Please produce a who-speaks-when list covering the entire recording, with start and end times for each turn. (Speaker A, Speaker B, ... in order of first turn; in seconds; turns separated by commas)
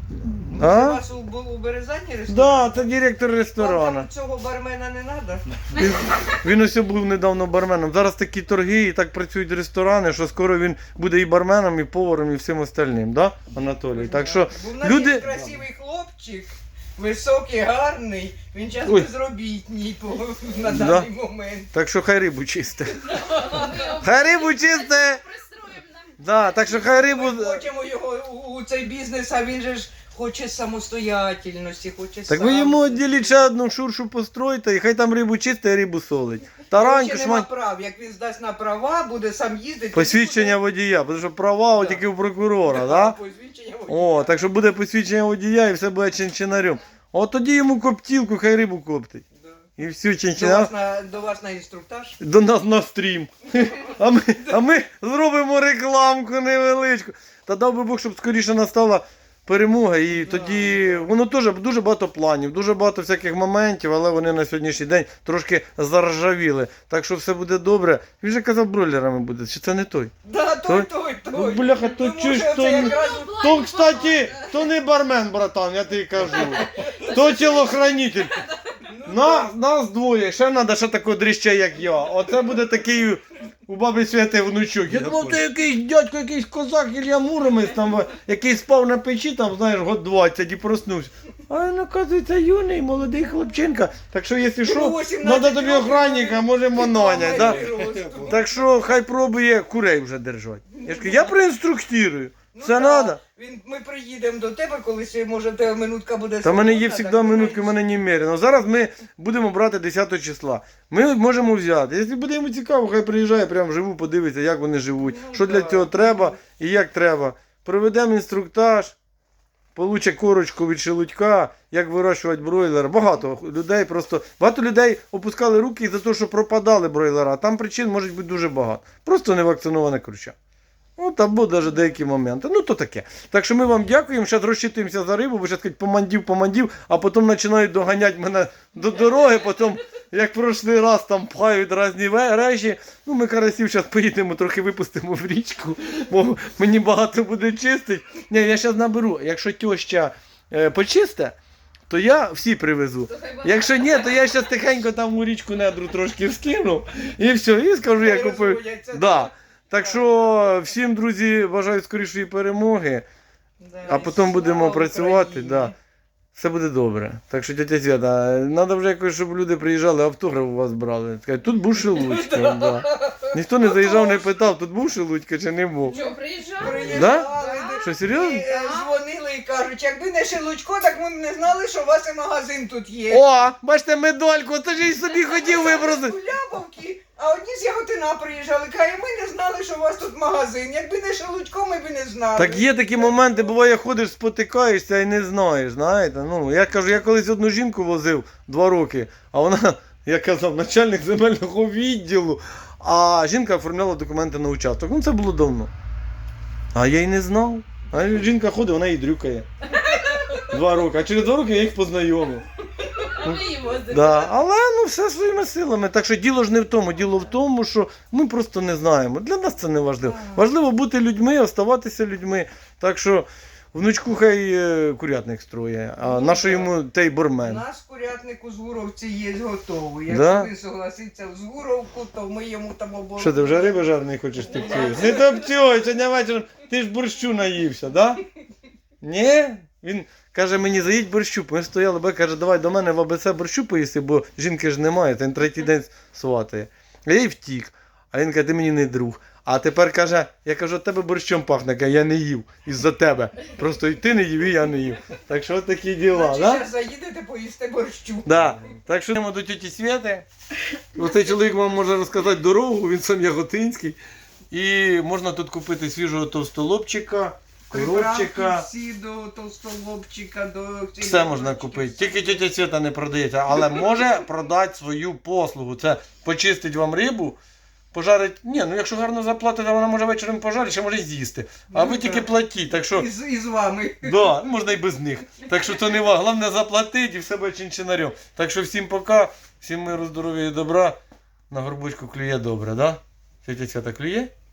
Speaker A: 0.3-1.0, Speaker B: 0.4-2.9, Speaker A: 2.3-4.1, Speaker B: 3.5-5.9, Speaker A: 5.7-15.3, Speaker B: 13.9-21.7, Speaker A: 20.7-21.1, Speaker A: 21.7-25.2, Speaker B: 23.1-23.7, Speaker C: 23.2-26.2, Speaker A: 26.2-27.6, Speaker B: 26.5-33.3, Speaker A: 32.3-37.5, Speaker B: 36.7-40.6, Speaker A: 39.9-43.1, Speaker B: 41.8-42.0, Speaker B: 42.6-44.4, Speaker A: 43.9-49.2, Speaker A: 49.8-50.7, Speaker B: 50.3-52.2, Speaker A: 52.2-70.1, Speaker B: 53.9-54.6, Speaker B: 60.1-61.0, Speaker B: 70.2-73.4, Speaker A: 70.7-78.4, Speaker C: 72.8-74.4, Speaker B: 74.3-74.7, Speaker B: 76.3-77.4, Speaker B: 78.7-79.5, Speaker A: 79.0-103.2, Speaker B: 94.6-98.6, Speaker B: 100.8-101.3, Speaker B: 102.5-107.8, Speaker A: 106.4-119.0, Speaker B: 115.0-116.4, Speaker A: 119.7-130.3, Speaker A: 131.0-151.3, Speaker A: 151.9-163.0, Speaker C: 153.1-154.1, Speaker B: 157.9-160.3, Speaker B: 163.6-165.7, Speaker A: 163.8-165.7, Speaker A: 166.3-176.0, Speaker B: 171.7-174.3, Speaker C: 175.9-177.8, Speaker B: 176.6-183.3, Speaker A: 176.9-178.4, Speaker C: 178.4-178.9, Speaker A: 183.1-186.1, Speaker B: 185.1-193.4, Speaker A: 192.4-205.7, Speaker A: 206.7-209.5, Speaker A: 210.3-212.4, Speaker C: 213.0-214.3, Speaker A: 213.2-227.6, Speaker B: 220.0-220.5, Speaker B: 226.0-226.7, Speaker B: 227.4-233.8, Speaker A: 230.1-230.5, Speaker A: 233.2-238.2, Speaker B: 234.4-235.4, Speaker A: 239.0-256.6, Speaker B: 256.1-258.5, Speaker A: 258.2-260.2, Speaker A: 260.9-264.0, Speaker A: 264.5-268.6, Speaker B: 267.7-272.4, Speaker A: 271.0-277.4, Speaker B: 273.6-274.0, Speaker A: 277.9-283.1, Speaker B: 281.7-284.4, Speaker A: 284.0-291.0, Speaker A: 291.5-294.3